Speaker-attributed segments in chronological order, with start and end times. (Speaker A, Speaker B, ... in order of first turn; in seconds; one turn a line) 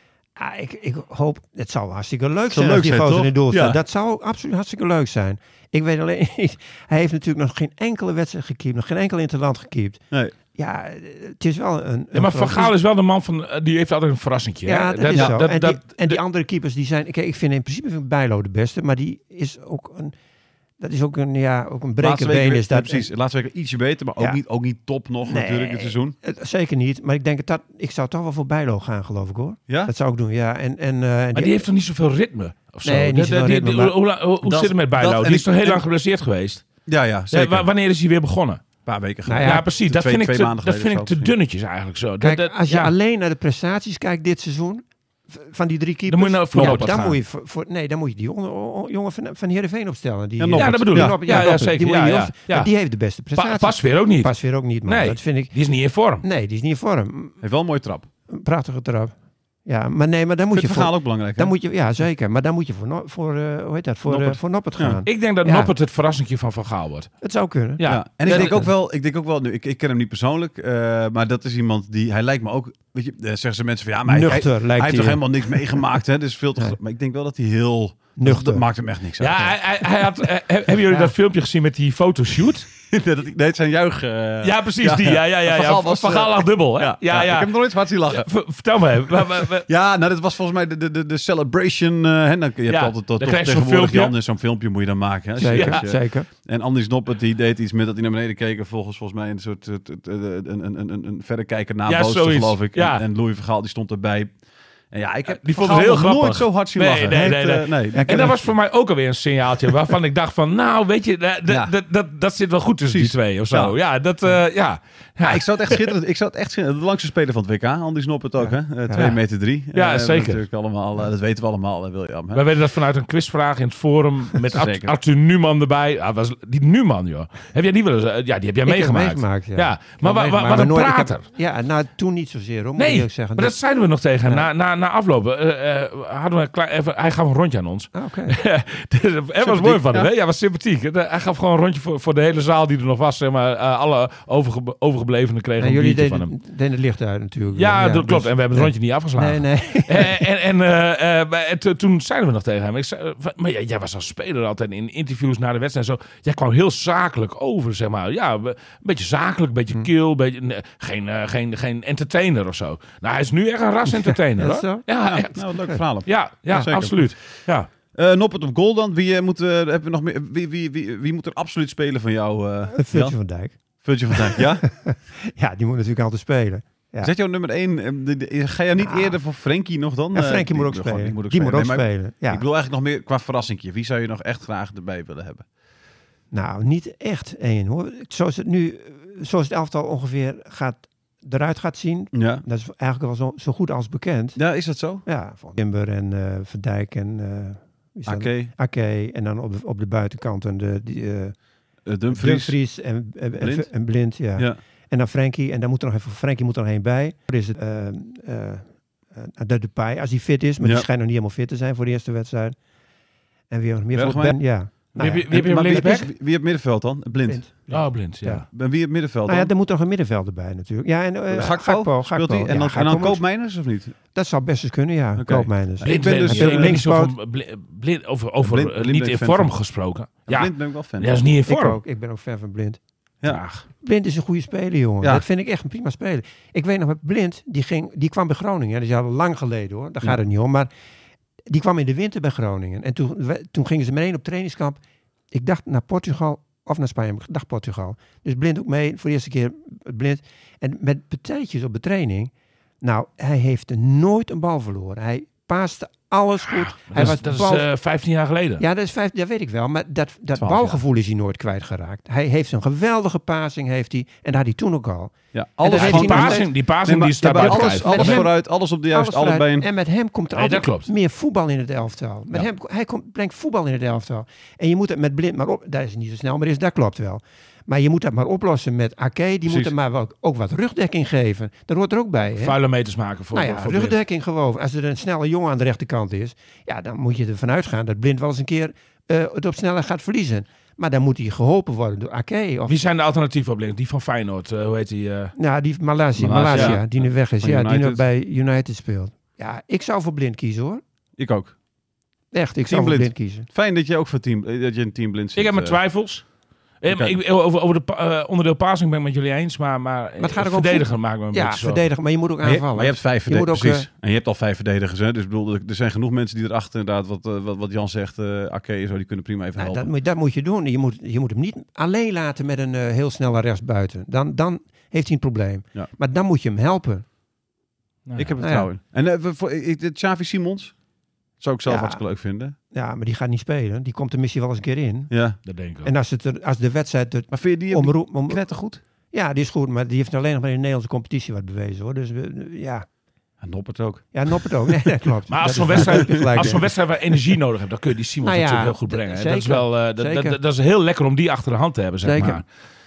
Speaker A: 0.4-10.0
Speaker B: 2.5-3.8
Speaker A: 10.6-12.7
Speaker C: 12.1-16.2
Speaker A: 14.7-20.1
Speaker A: 20.8-23.1
Speaker B: 22.0-26.1
Speaker A: 25.2-31.6
Speaker C: 31.4-36.7
Speaker A: 32.9-34.0
Speaker B: 34.4-35.8
Speaker B: 36.9-37.7
Speaker C: 37.3-38.7
Speaker B: 38.9-41.4
Speaker A: 39.2-39.7
Speaker C: 39.4-42.9
Speaker A: 42.2-55.5
Speaker C: 46.1-47.2
Speaker B: 50.4-51.2
Speaker C: 50.5-52.7
Speaker C: 53.4-54.3
Speaker C: 54.9-56.2
Speaker A: 56.2-57.4
Speaker B: 57.4-58.1
Speaker A: 58.3-65.7
Speaker B: 60.5-61.5
Speaker B: 64.1-65.0
Speaker C: 65.0-67.1
Speaker A: 67.2-68.7
Speaker C: 67.8-68.6
Speaker B: 67.9-80.0
Speaker A: 74.1-75.8
Speaker A: 78.2-78.7
Speaker C: 79.2-82.7
Speaker B: 82.9-88.3
Speaker C: 84.4-89.7
Speaker B: 89.1-104.3
Speaker C: 92.7-94.2
Speaker A: 95.4-96.3
Speaker C: 95.5-95.9
Speaker C: 101.9-103.0
Speaker B: 104.9-108.5
Speaker C: 105.3-115.9
Speaker A: 108.0-108.3
Speaker B: 111.5-111.7
Speaker B: 112.9-113.8
Speaker B: 115.2-122.5
Speaker A: 118.4-119.1
Speaker C: 118.9-119.2
Speaker C: 119.7-120.4
Speaker C: 122.3-131.2
Speaker B: 124.3-125.0
Speaker A: 128.7-133.6
Speaker C: 132.8-146.3
Speaker A: 137.9-138.4
Speaker B: 139.4-140.1
Speaker A: 145.6-150.2
Speaker C: 147.6-167.7
Speaker A: 163.9-165.8
Speaker B: 165.3-167.4
Speaker B: 167.9-174.7
Speaker A: 172.8-177.1
Speaker B: 177.0-185.4
Speaker A: 178.8-179.2
Speaker A: 180.1-182.4
Speaker A: 186.3-194.4
Speaker B: 192.1-192.4
Speaker B: 194.4-195.0
Speaker A: 195.0-201.4
Speaker B: 198.1-198.5
Speaker B: 201.8-202.6
Speaker A: 202.1-212.6
Speaker B: 203.4-203.7
Speaker B: 204.3-204.6
Speaker A: 213.5-216.0
Speaker B: 213.9-217.4
Speaker C: 215.0-216.1
Speaker A: 217.3-218.5
Speaker C: 217.7-218.5
Speaker B: 218.5-219.5
Speaker A: 219.2-223.3
Speaker B: 221.3-223.9
Speaker A: 224.1-227.1
Speaker B: 225.2-226.8
Speaker C: 225.8-231.8
Speaker B: 228.4-229.5
Speaker B: 230.3-231.1
Speaker A: 231.5-232.8
Speaker C: 233.2-233.6
Speaker A: 233.8-240.7
Speaker A: 241.5-244.8
Speaker A: 245.3-257.7
Speaker C: 256.5-258.6
Speaker A: 258.6-266.5
Speaker B: 260.3-260.8
Speaker B: 265.3-269.7
Speaker C: 265.7-268.2
Speaker A: 267.3-282.6
Speaker C: 270.4-270.9
Speaker B: 279.5-279.7
Speaker C: 282.4-284.0
Speaker A: 283.3-292.8
Speaker C: 292.7-295.3
Speaker A: 295.4-300.8
Speaker B: 296.2-298.0
Speaker B: 301.2-301.6
Speaker A: 302.3-303.5
Speaker B: 302.6-305.8
Speaker C: 305.4-306.3
Speaker C: 306.8-311.9
Speaker B: 306.9-307.2
Speaker A: 310.2-313.9
Speaker B: 312.4-319.9
Speaker A: 319.6-327.1
Speaker C: 328.1-328.4
Speaker B: 328.2-330.8
Speaker A: 328.4-328.7
Speaker B: 331.4-332.6
Speaker A: 331.7-332.0
Speaker A: 332.7-335.1
Speaker B: 335.1-335.4
Speaker C: 335.5-335.9
Speaker A: 335.8-338.5
Speaker B: 337.3-338.8
Speaker A: 339.1-342.9
Speaker B: 343.4-344.7
Speaker A: 344.1-346.7
Speaker C: 345.3-352.5
Speaker B: 345.7-346.6
Speaker A: 348.2-350.4
Speaker A: 352.0-352.4